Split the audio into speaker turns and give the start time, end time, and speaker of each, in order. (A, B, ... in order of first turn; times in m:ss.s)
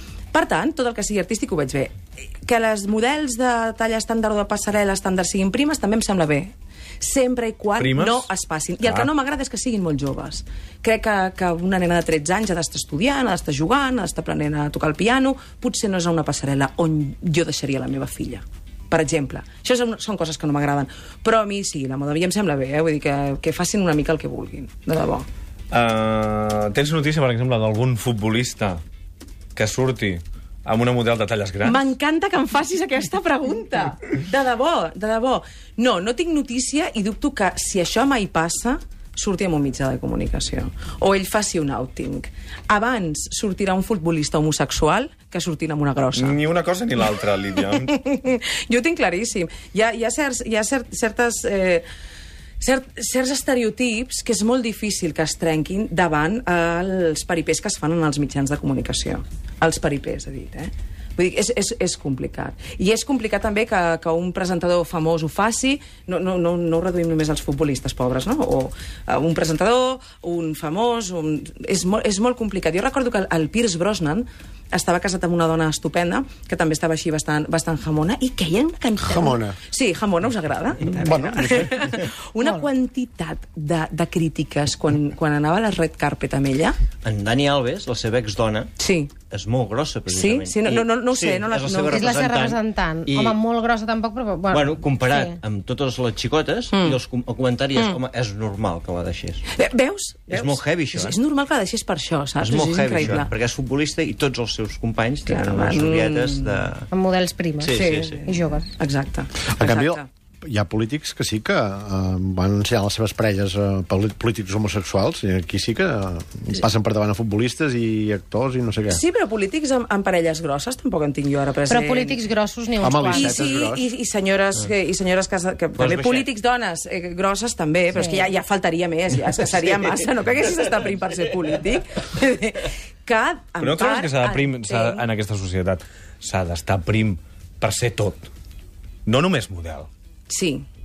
0:00.3-0:25.2 A
0:07.8-0:08.3 B
0:08.8-0:09.1 B
0:25.7-0:28.8 B
0:29.6-0:31.8 B
0:31.6-0:46.4 A
0:46.2-0:47.9 B
0:47.7-0:51.8 A
0:52.6-1:26.8 A
1:19.0-1:19.6 C
1:21.0-1:21.7 C
1:27.0-1:33.4 D
1:28.8-1:29.1 A
1:30.1-1:32.1 A
1:31.9-1:35.4 E
1:34.5-1:39.4 D
1:36.7-1:37.0 A
1:39.5-1:43.3 A
1:40.3-1:41.2 D
1:42.4-1:46.9 D
1:45.2-1:46.7 A
1:46.9-1:48.7 E
1:47.6-1:48.2 D
1:47.7-1:50.1 A
1:49.5-1:59.0 C
1:58.9-2:02.2 A
2:01.7-2:03.4 E
2:02.8-2:03.8 C
2:03.0-2:15.1 A
2:05.8-2:06.2 D
2:07.9-2:08.2 E
2:13.6-2:18.3 B
2:19.0-2:19.9 B
2:20.3-2:20.6 A